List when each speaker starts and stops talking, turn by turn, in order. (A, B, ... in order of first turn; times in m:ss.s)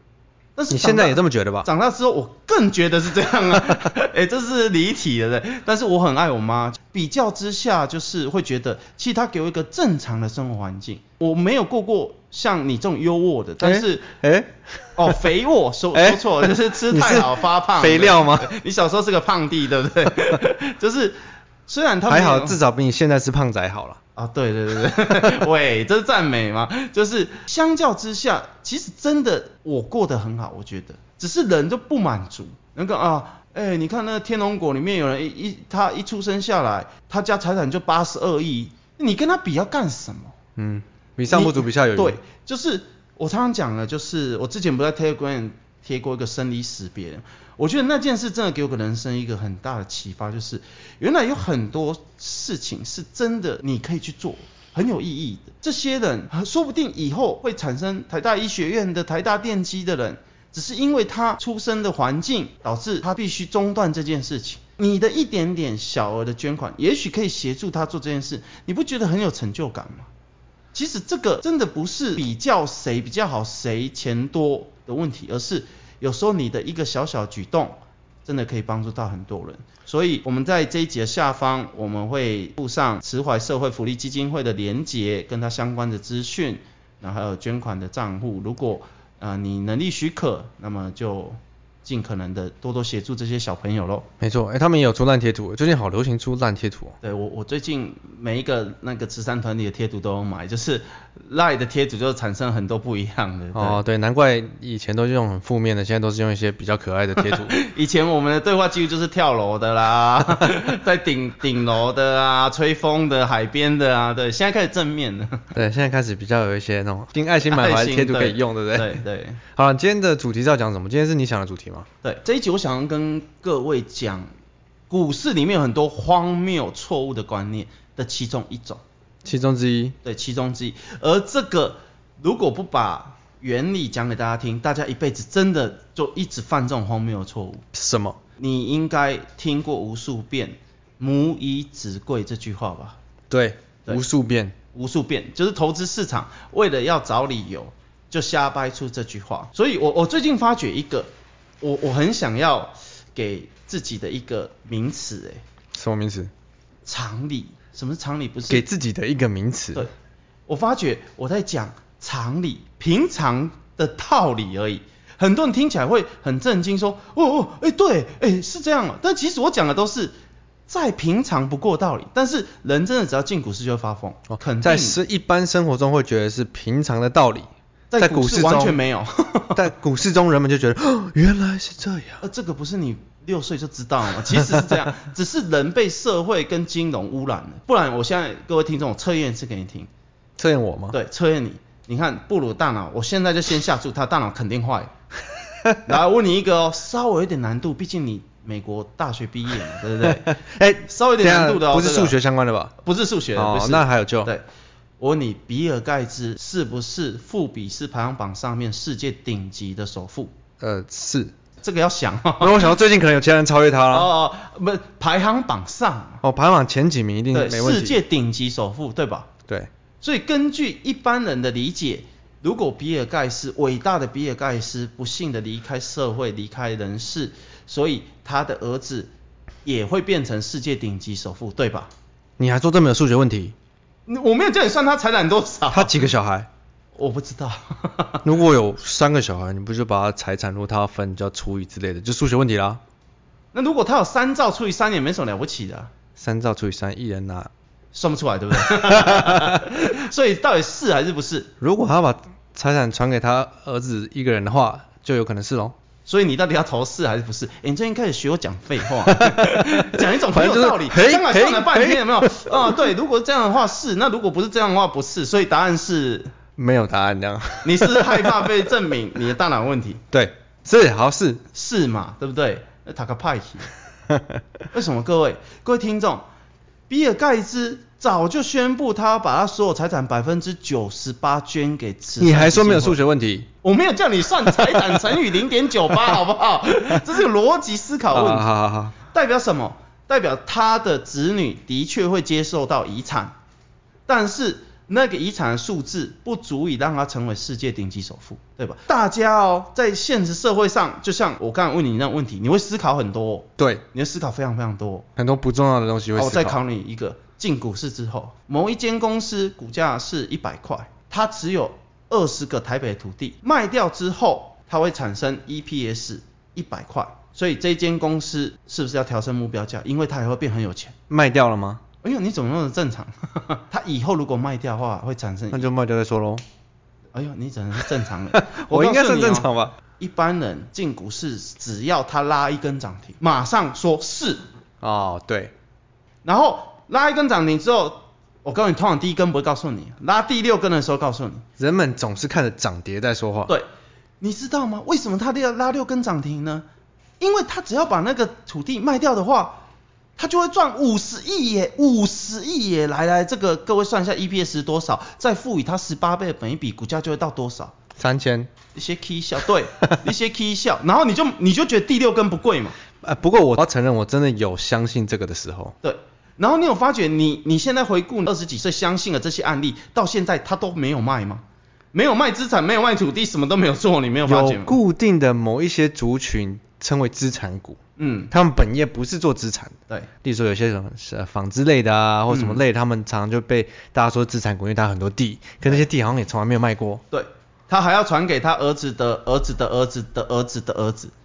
0:00.6-0:14.1 A
0:00.7-0:01.7 B
0:13.6-0:15.3 B
0:15.0-0:22.6 A
0:15.9-0:18.5 B
0:22.1-0:24.0 B
0:24.1-0:40.3 A
0:40.6-0:42.2 B
0:41.3-1:10.1 A
1:10.7-1:34.1 A
1:34.2-1:37.0 B
1:37.0-1:43.8 A
1:43.5-1:47.5 B
1:47.2-1:55.5 A
1:55.5-1:59.0 B
1:57.4-1:59.4 A
1:59.5-2:01.9 B
2:02.0-2:04.3 A
2:04.9-2:08.8 A
2:09.2-2:09.9 B
2:10.0-2:17.6 A
2:17.7-2:18.2 B
2:18.4-2:23.0 A
2:23.3-2:24.5 B
2:24.7-2:31.1 A
2:31.6-2:35.4 A
2:35.7-2:36.3 B
2:36.8-2:38.7 A
2:38.5-2:39.8 B
2:40.5-2:50.1 A
2:50.7-2:55.0 A
2:54.3-2:58.8 B
2:57.9-2:59.7 A
2:59.6-3:02.2 B
3:02.2-3:09.9 A
3:10.4-3:11.0 B
3:10.9-3:14.9 A
3:15.8-3:22.2 A
3:20.0-3:22.7 B
3:22.8-3:24.4 A
3:23.3-3:24.3 B
3:25.0-3:30.3 A
3:30.6-3:31.3 B
3:31.6-3:32.7 A
3:32.4-3:34.1 B
3:33.9-3:36.2 A
3:36.2-3:38.0 B
3:37.3-3:39.3 A
3:40.0-3:49.1 A
3:49.6-3:51.9 A
3:52.4-3:53.5 B
3:54.1-3:56.0 A
3:55.7-3:56.5 B
3:56.9-3:58.2 A
3:58.2-4:02.8 B
4:03.5-4:05.9 A
4:06.2-4:07.5 B
4:07.9-4:11.5 A
4:09.0-4:09.6 B
4:11.6-4:15.7 B
4:16.0-4:26.3 A
4:19.0-4:22.8 B
4:26.6-4:28.5 B
4:27.6-4:30.0 A
4:30.1-4:31.4 B
4:31.5-4:33.7 A
4:34.7-4:36.2 A
4:36.9-4:43.0 A
4:42.2-4:43.5 B
4:43.6-4:48.5 A
4:48.1-4:48.9 B
4:49.0-4:53.3 A
4:54.1-5:05.1 A
5:03.6-5:03.8 B
5:05.2-5:06.6 B
5:06.1-5:20.9 A
5:21.1-5:21.8 B
5:22.0-5:25.7 A
5:25.5-5:26.4 B
5:27.1-5:34.4 A
5:28.3-5:29.7 B
5:34.8-5:35.5 B
5:36.2-5:41.4 A
5:41.6-5:43.5 B
5:44.2-5:46.6 A
5:47.2-5:49.6 A
5:50.2-5:57.7 A
5:58.0-5:58.5 B
5:58.7-6:02.8 A
6:03.0-6:05.7 B
6:05.8-6:14.8 A
6:14.2-6:17.8 B
6:18.0-6:18.3 A
6:18.3-6:27.0 B
6:22.3-6:22.6 A
6:27.1-6:31.1 A